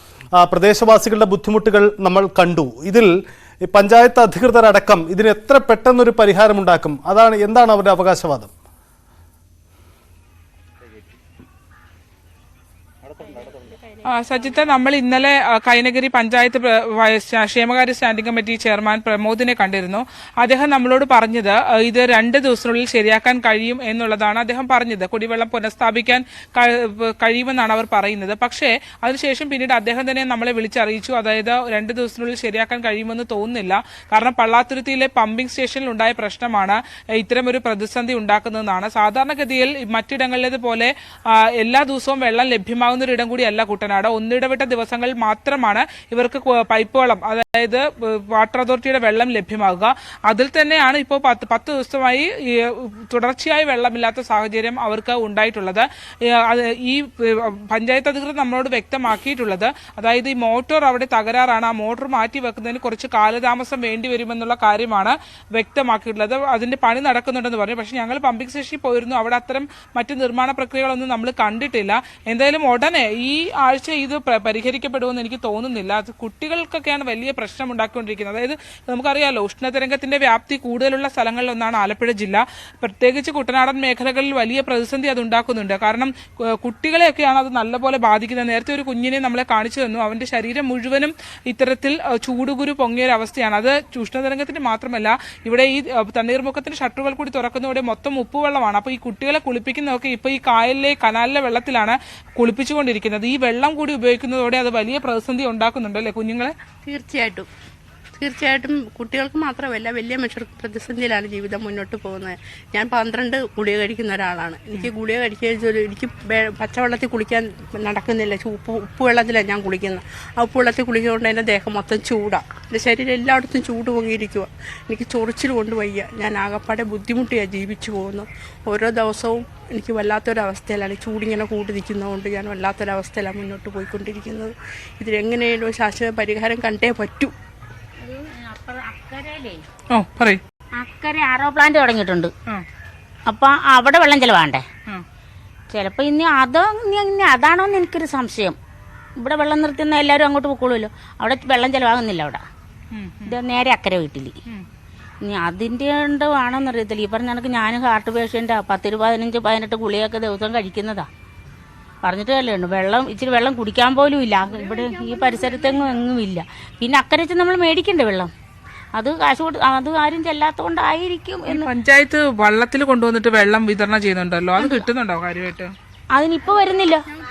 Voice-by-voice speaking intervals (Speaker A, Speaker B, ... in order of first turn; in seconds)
Speaker A: 0.4-3.1, 3.7-8.5
Speaker B: 14.1-106.5, 139.9-140.4, 152.9-153.4, 171.5-175.7
Speaker C: 106.9-107.5, 108.2-137.3, 164.5-166.0
Speaker D: 138.0-139.6, 140.8-142.3, 143.3-144.7, 145.7-148.6, 149.2-152.4, 153.3-154.3, 155.2-161.1, 162.0-168.3, 168.9-171.7, 174.6-174.8, 176.1-177.1